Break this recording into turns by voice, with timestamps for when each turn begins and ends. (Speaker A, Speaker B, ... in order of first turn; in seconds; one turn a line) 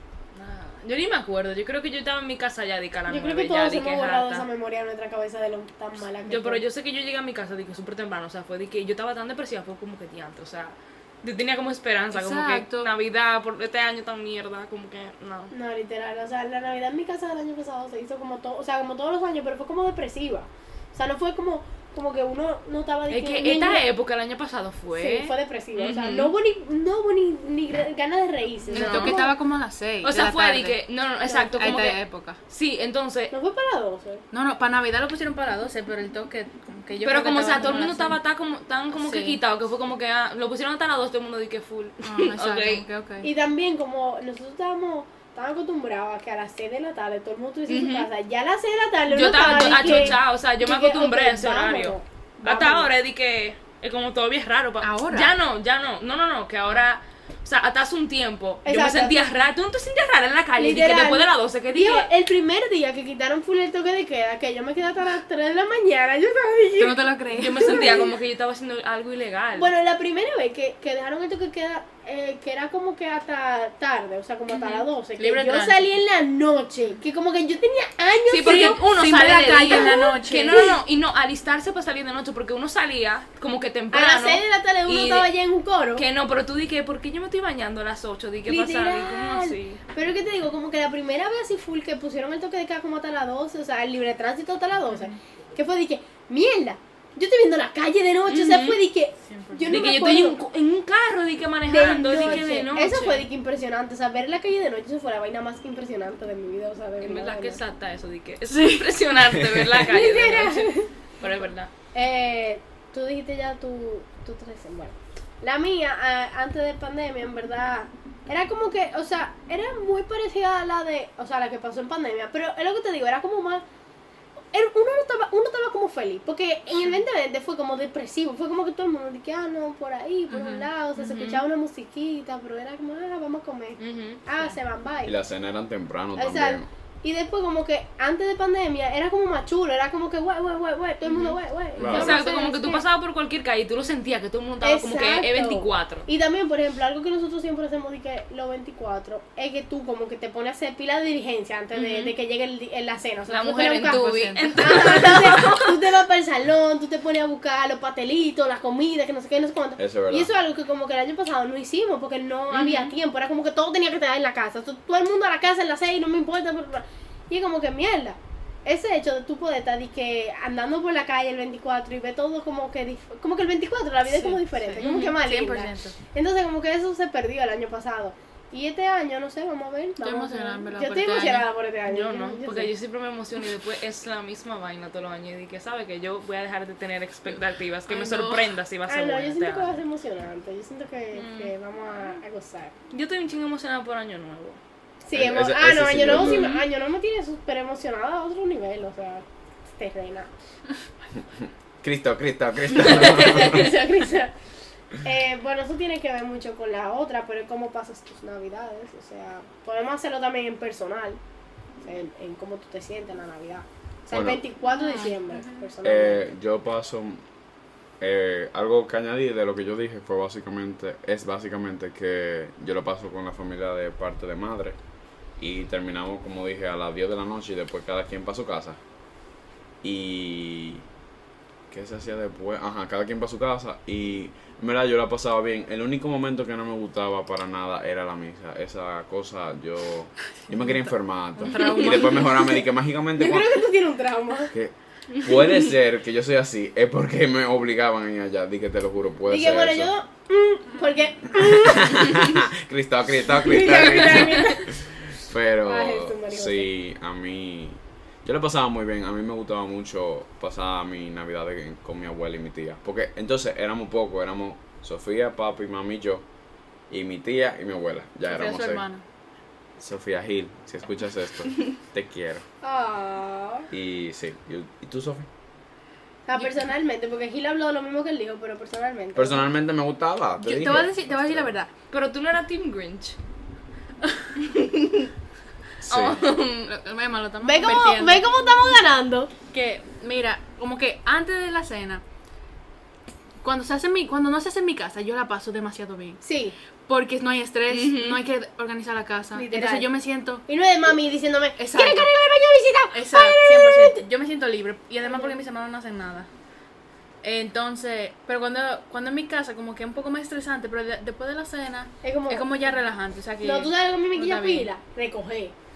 Speaker A: 0.3-4.5
Speaker B: 3.1-6.6
Speaker A: 6.3-15.5
Speaker C: 12.1-12.9
Speaker B: 15.5-23.8
Speaker A: 23.1-26.3
Speaker B: 24.9-29.3
Speaker A: 28.7-29.3
Speaker C: 28.7-30.8
Speaker A: 30.0-33.3
Speaker B: 31.2-31.8
Speaker C: 31.5-32.4
Speaker B: 33.3-34.2
Speaker C: 34.3-38.2
Speaker A: 37.0-42.8
Speaker C: 38.9-39.4
Speaker C: 42.0-43.3
Speaker B: 43.2-52.9
Speaker A: 47.7-48.1
Speaker A: 49.1-62.1
Speaker C: 49.3-50.2
Speaker C: 54.8-55.3
Speaker B: 58.6-59.3
Speaker B: 60.6-68.1
Speaker C: 66.8-67.9
Speaker A: 67.4-69.7
Speaker B: 69.5-80.8
Speaker A: 74.5-74.9
Speaker C: 75.2-75.9
Speaker A: 78.3-85.3
Speaker C: 78.4-80.7
Speaker B: 83.9-86.0
Speaker A: 85.9-89.8
Speaker B: 88.5-100.4
Speaker C: 94.9-95.2
Speaker A: 98.3-98.8
Speaker C: 99.2-99.9
Speaker A: 99.7-103.3
Speaker B: 101.7-107.6
Speaker C: 102.1-102.4
Speaker A: 107.0-111.7
Speaker C: 108.5-108.9
Speaker D: 109.4-109.7
Speaker B: 109.9-110.9
Speaker B: 111.9-123.6
Speaker B: 124.5-135.2
Speaker C: 130.3-130.7
Speaker A: 130.9-131.4
Speaker A: 133.8-134.2
Speaker D: 135.0-136.7
Speaker B: 136.2-142.8
Speaker A: 141.1-146.1
Speaker D: 141.8-142.2
Speaker B: 144.6-154.0
Speaker A: 151.7-152.1
Speaker A: 153.3-155.8
Speaker C: 153.8-155.0
Speaker B: 154.6-182.7
Speaker D: 159.8-160.3
Speaker A: 162.5-162.9
Speaker C: 174.1-175.9
Speaker A: 174.8-175.2
Speaker C: 180.0-181.5
Speaker A: 181.9-189.8
Speaker C: 187.9-188.5
Speaker B: 188.9-192.7
Speaker A: 191.1-191.5
Speaker A: 192.9-194.6
Speaker B: 195.0-200.3
Speaker D: 195.1-196.6
Speaker A: 196.2-196.6
Speaker D: 201.8-203.7
Speaker B: 202.7-204.3
Speaker B: 205.0-211.2
Speaker B: 211.8-216.3
Speaker D: 214.1-214.4
Speaker C: 214.7-215.6
Speaker D: 215.8-217.2
Speaker D: 218.0-224.8
Speaker D: 225.4-228.8
Speaker D: 229.8-230.8
Speaker D: 231.7-243.6
Speaker C: 240.6-242.5
Speaker B: 242.1-242.5
Speaker B: 243.2-244.5
Speaker D: 244.5-249.9
Speaker A: 245.1-245.6
Speaker B: 249.3-252.4
Speaker D: 251.4-266.2
Speaker B: 253.4-254.7
Speaker B: 255.6-256.7
Speaker D: 266.9-268.8
Speaker C: 268.2-269.0
Speaker D: 269.8-272.4
Speaker B: 272.6-273.7
Speaker D: 273.7-275.3
Speaker B: 276.3-279.5
Speaker D: 279.1-281.5
Speaker C: 280.4-281.7
Speaker A: 281.9-283.2
Speaker A: 284.4-285.1
Speaker D: 285.8-286.2
Speaker A: 285.9-286.7
Speaker C: 286.6-288.8
Speaker B: 287.4-289.3
Speaker C: 289.5-292.0
Speaker C: 293.4-296.2
Speaker B: 296.2-296.6
Speaker C: 296.9-300.4
Speaker A: 297.7-298.2
Speaker B: 299.3-299.9
Speaker B: 300.5-304.0
Speaker C: 301.6-302.1
Speaker C: 302.9-306.3
Speaker B: 305.0-305.3
Speaker C: 307.2-314.7
Speaker B: 312.0-312.5
Speaker B: 313.4-315.6